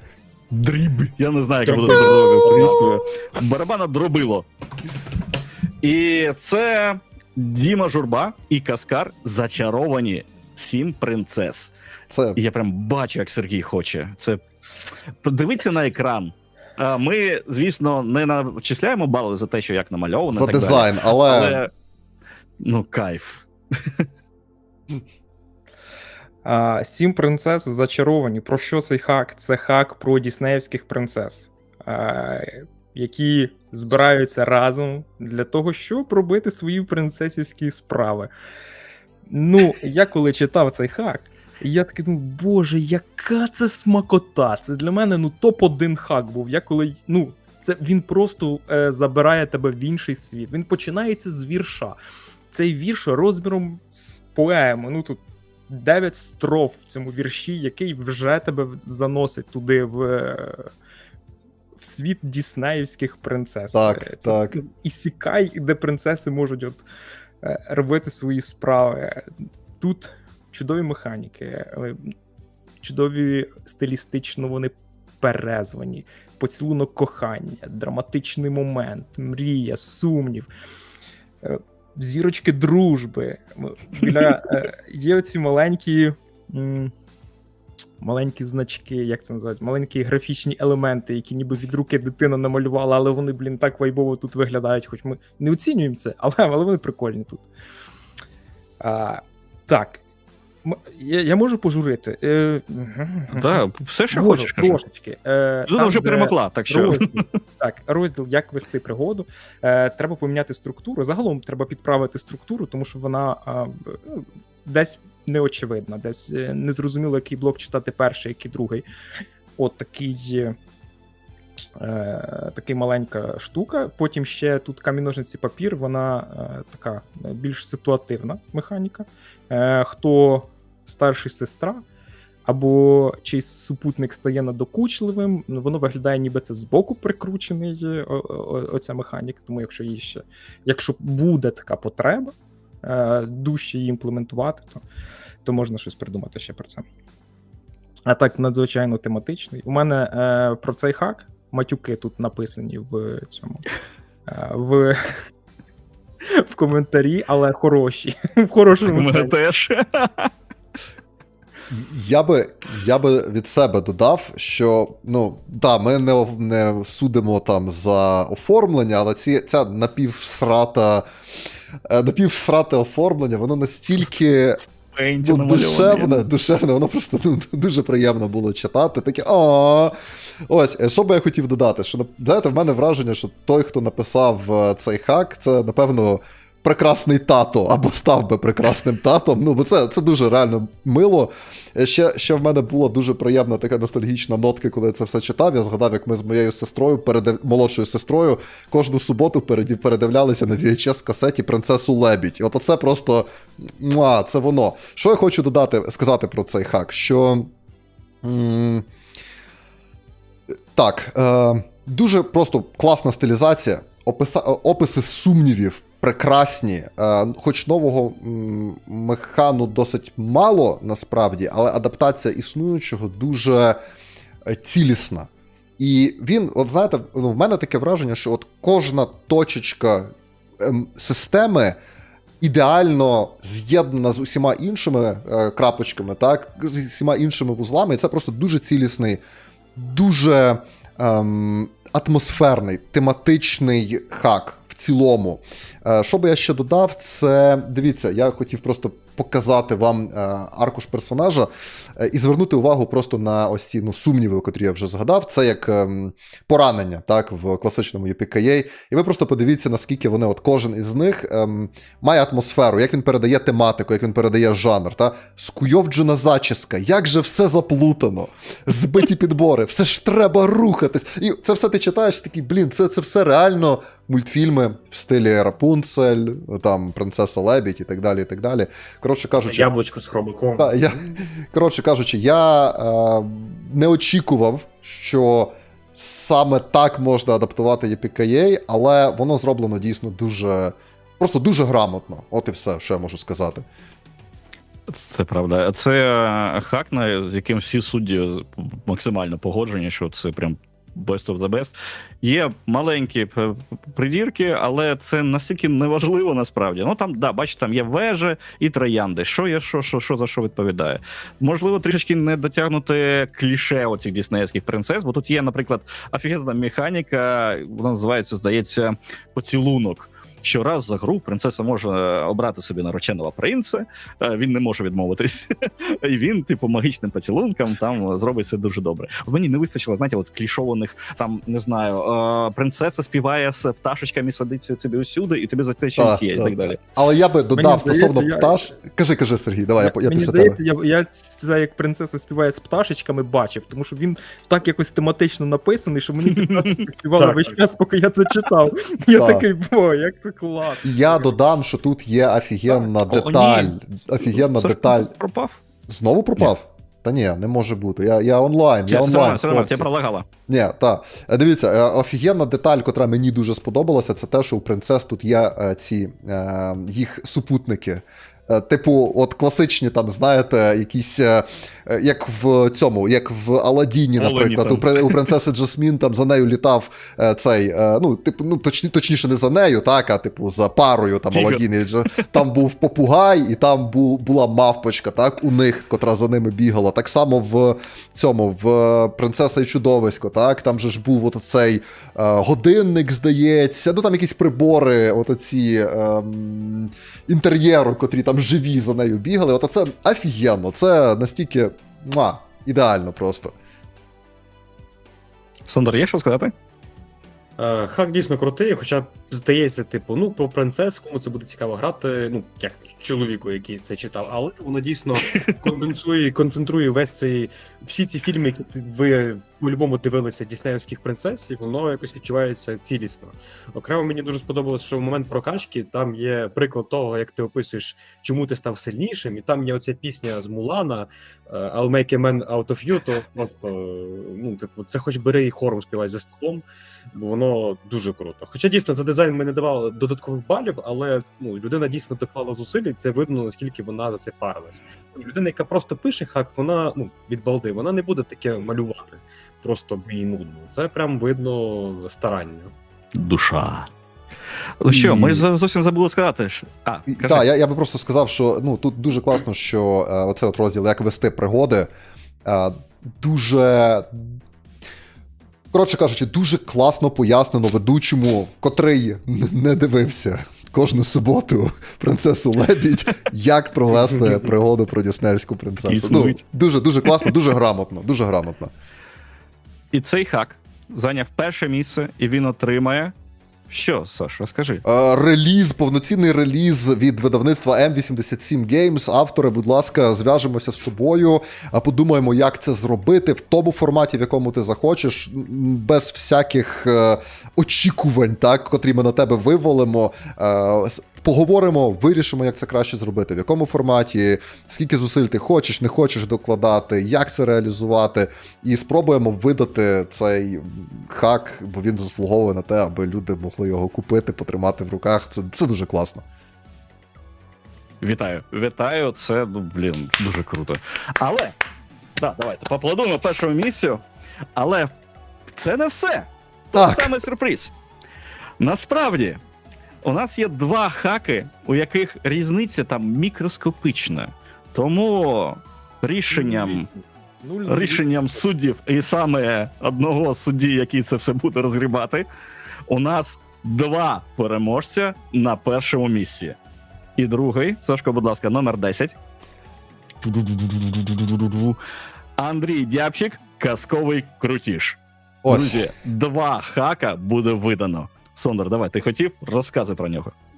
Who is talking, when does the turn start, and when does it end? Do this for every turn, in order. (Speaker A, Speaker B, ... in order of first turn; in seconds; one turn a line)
Speaker A: 0.5-4.5
Speaker B: 1.6-2.8
Speaker A: 5.8-11.7
Speaker C: 12.1-12.4
Speaker A: 12.3-14.4
Speaker A: 15.2-21.7
Speaker C: 20.3-21.6
Speaker A: 22.6-24.0
Speaker D: 26.4-38.3
Speaker D: 39.3-52.0
Speaker D: 52.5-60.7
Speaker D: 61.8-66.8
Speaker C: 63.7-64.6
Speaker D: 67.4-72.1
Speaker D: 72.8-80.5
Speaker D: 81.4-86.9
Speaker D: 88.0-97.4
Speaker D: 98.8-100.0
Speaker D: 100.6-118.8
Speaker A: 103.3-104.8
Speaker A: 105.7-107.2
Speaker D: 119.6-120.5
Speaker D: 121.8-131.8
Speaker D: 132.4-144.8
Speaker D: 145.4-146.8
Speaker D: 148.1-153.6
Speaker D: 154.3-155.0
Speaker D: 156.2-159.3
Speaker A: 158.8-160.3
Speaker C: 161.7-171.1
Speaker C: 171.9-174.6
Speaker A: 174.9-176.2
Speaker C: 175.2-179.9
Speaker C: 180.5-207.5
Speaker C: 208.2-208.8
Speaker C: 210.7-223.8
Speaker C: 224.4-231.8
Speaker C: 232.4-239.2
Speaker C: 239.8-279.7
Speaker B: 279.4-280.8
Speaker C: 280.6-293.6
Speaker A: 294.9-336.8
Speaker C: 335.9-340.6
Speaker D: 337.5-338.6
Speaker D: 339.8-351.3
Speaker A: 346.4-346.8
Speaker B: 347.2-347.5
Speaker C: 349.1-349.4
Speaker C: 350.8-355.1
Speaker A: 353.1-355.6
Speaker C: 355.9-359.9
Speaker A: 358.9-360.2
Speaker C: 360.5-403.5
Speaker A: 374.2-375.3
Speaker A: 381.3-382.2
Speaker A: 405.7-406.5
Speaker B: 407.6-452.7
Speaker A: 453.1-453.9
Speaker A: 454.8-457.4
Speaker C: 454.9-455.4
Speaker C: 457.1-461.9
Speaker C: 462.4-464.4
Speaker C: 465.7-478.7
Speaker A: 475.8-476.4
Speaker A: 477.0-477.3
Speaker A: 479.9-483.1
Speaker A: 483.7-484.8
Speaker C: 484.8-516.2
Speaker A: 518.0-521.5
Speaker A: 522.2-524.0
Speaker A: 524.5-524.9
Speaker A: 525.5-527.7
Speaker C: 526.7-527.1
Speaker A: 528.6-529.4
Speaker A: 530.0-536.9
Speaker D: 536.3-538.4
Speaker A: 537.7-542.2
Speaker A: 542.9-546.6
Speaker A: 547.2-549.1
Speaker A: 550.2-551.8
Speaker A: 552.4-560.3
Speaker C: 555.4-555.8